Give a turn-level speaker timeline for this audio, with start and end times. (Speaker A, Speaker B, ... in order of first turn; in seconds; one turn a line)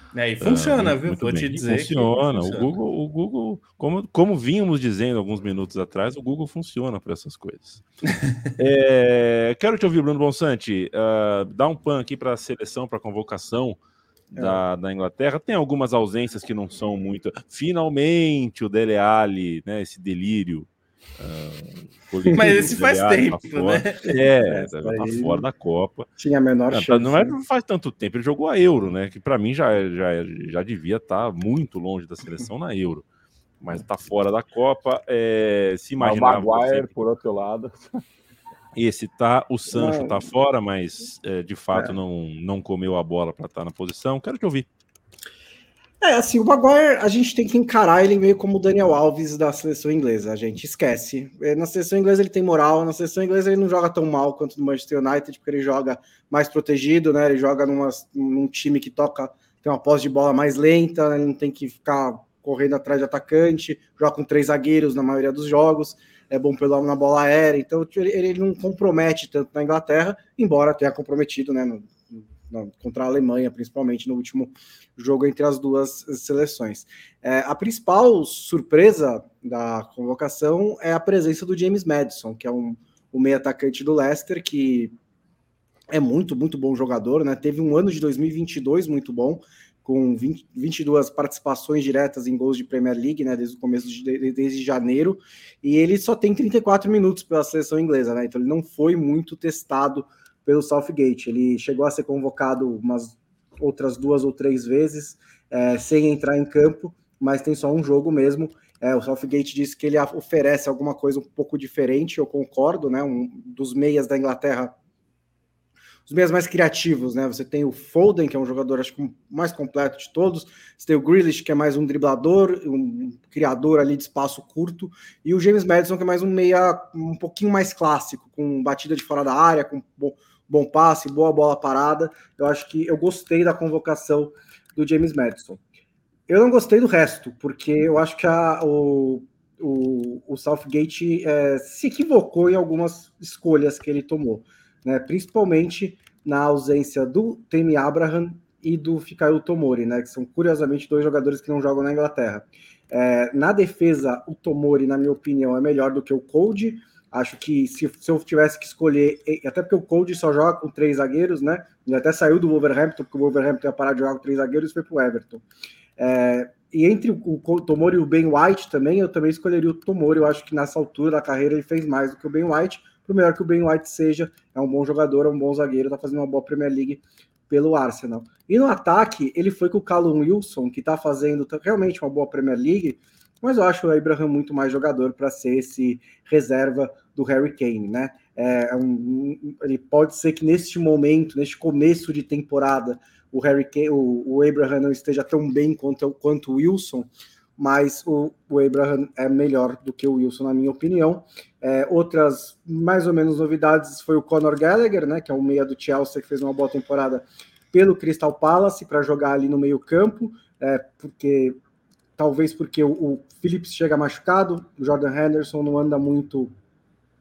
Speaker A: 0.1-2.7
Speaker B: 0.4-7.8
Speaker B: 8.6-13.8
Speaker B: 14.3-26.1
Speaker C: 14.3-14.6
Speaker C: 22.2-22.6
Speaker A: 22.3-24.1
Speaker C: 24.4-25.4
Speaker C: 26.2-27.4
Speaker B: 26.7-33.0
Speaker B: 33.6-36.9
Speaker D: 36.0-38.0
Speaker B: 38.7-44.7
Speaker C: 39.7-40.2
Speaker C: 46.0-84.9
Speaker C: 85.9-114.7
Speaker C: 116.0-135.6
Speaker C: 136.3-165.4
Speaker C: 166.0-211.6
Speaker C: 212.2-216.5